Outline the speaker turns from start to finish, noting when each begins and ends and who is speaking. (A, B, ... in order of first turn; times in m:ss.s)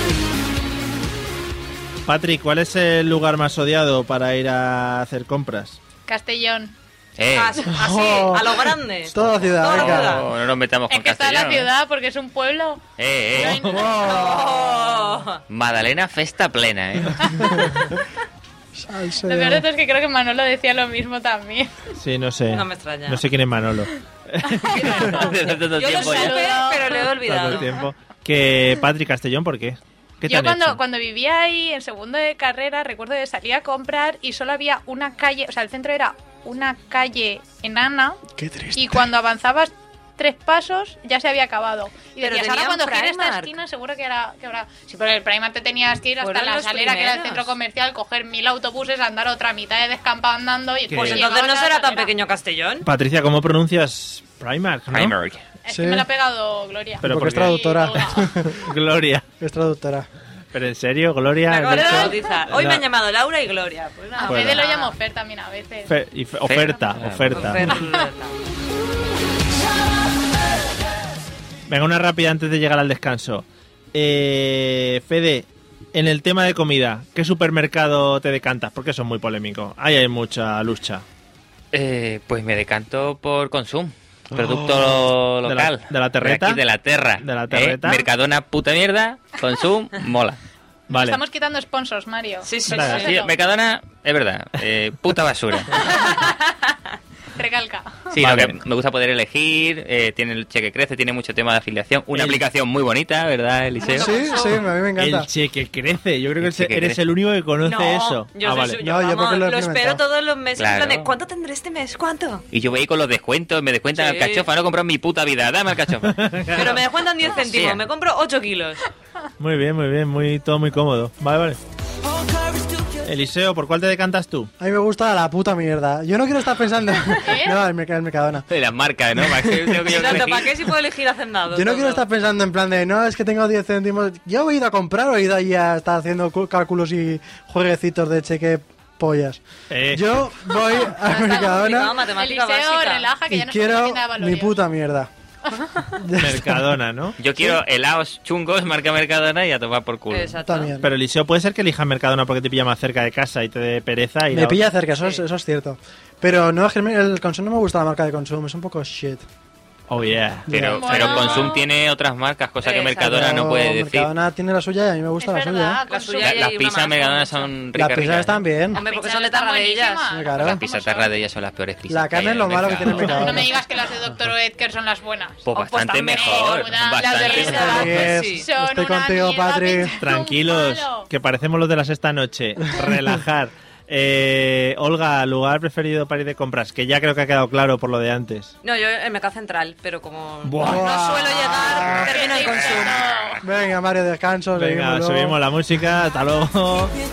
0:02.1-0:05.8 A
0:06.1-0:06.8 B
0:07.2-0:07.7 C
0:07.3-0:10.3 D
0:07.7-0:10.2 E
0:09.6-0:11.7 C
0:10.9-0:12.8 B
0:13.0-0:13.8 C
0:13.4-0:14.0 B
0:13.6-0:14.7 E
0:14.0-0:15.4 D
0:15.5-0:17.7 C
0:17.4-0:17.7 E
0:18.8-0:19.6 E
0:19.3-0:21.7 B
0:22.0-0:25.2 A
0:22.5-0:23.2 D
0:24.4-0:27.1 B
0:24.7-0:27.7 D
0:25.2-0:26.5 C
0:27.2-0:30.8 A
0:30.3-0:38.2 B
0:38.4-0:39.1 E
0:38.8-0:52.1 B
0:42.2-0:43.6 D
0:46.2-0:47.5 D
0:50.9-0:51.3 A
0:50.9-0:52.9 D
0:52.8-0:55.2 A
0:54.9-0:55.4 C
0:55.6-0:58.4 B
0:55.7-0:56.1 E
0:57.0-0:57.8 A
0:57.0-0:58.6 E
0:58.5-0:59.2 A
0:59.4-1:00.1 E
1:00.5-1:02.8 A
1:01.5-1:05.0 D
1:01.7-1:02.2 B
1:04.2-1:05.9 B
1:04.2-1:04.7 A
1:05.9-1:07.8 A
1:06.4-1:07.6 C
1:07.3-1:08.3 D
1:07.7-1:08.0 B
1:11.7-1:21.0 A
1:21.7-1:30.4 C
1:24.3-1:26.6 A
1:27.2-1:28.1 A
1:30.9-1:31.2 A
1:30.9-1:33.4 B
1:32.4-1:33.2 D
1:32.7-1:33.0 A
1:32.8-1:35.8 C
1:35.8-1:36.3 D
1:37.4-1:38.2 B
1:38.1-1:44.2 C
1:38.2-1:38.6 A
1:42.1-1:42.4 A
1:43.8-1:44.7 D
1:43.9-1:45.3 E
1:45.0-1:48.8 A
1:46.4-1:47.0 C
1:47.6-1:52.4 D
1:48.8-1:50.0 E
1:50.6-1:51.1 C
1:52.5-1:57.8 C
1:53.9-1:54.5 D
1:56.1-1:56.8 A
1:56.5-1:58.8 D
1:59.4-2:01.6 A
2:03.0-2:04.5 A
2:04.6-2:08.5 E
2:07.2-2:07.6 B
2:08.5-2:10.6 C
2:09.2-2:10.3 E
2:09.9-2:12.0 D
2:11.5-2:22.0 E
2:19.7-2:20.2 A
2:21.0-2:23.1 D
2:22.1-2:24.6 B
2:23.3-2:25.1 E
2:25.5-2:25.9 B
2:26.0-2:26.7 E
2:26.2-2:27.2 A
2:27.2-2:30.4 C
2:30.1-2:30.7 D
2:30.4-2:30.9 E
2:30.8-2:34.6 A
2:34.3-2:39.2 E
2:35.0-2:35.2 D
2:39.9-2:40.5 A
2:40.5-2:41.1 E
2:40.5-2:44.1 C
2:40.8-2:41.6 B
2:41.0-2:41.5 D
2:42.6-2:43.1 D
2:43.0-2:45.8 E
2:45.2-2:46.5 B
2:45.9-2:47.5 D
2:46.2-2:48.4 C
2:47.8-2:48.8 E
2:48.7-2:50.2 D
2:48.8-2:51.1 B
2:50.1-2:50.6 E
2:50.4-2:53.2 C
2:51.9-2:53.5 E
2:53.0-3:01.1 B
2:55.5-2:58.0 C
2:55.5-2:58.4 D
2:57.3-3:00.0 E
3:00.0-3:08.5 A
3:08.6-3:13.0 D
3:10.4-3:10.9 A
3:10.6-3:12.1 E
3:12.1-3:13.4 B
3:13.4-3:15.4 E
3:14.6-3:16.9 A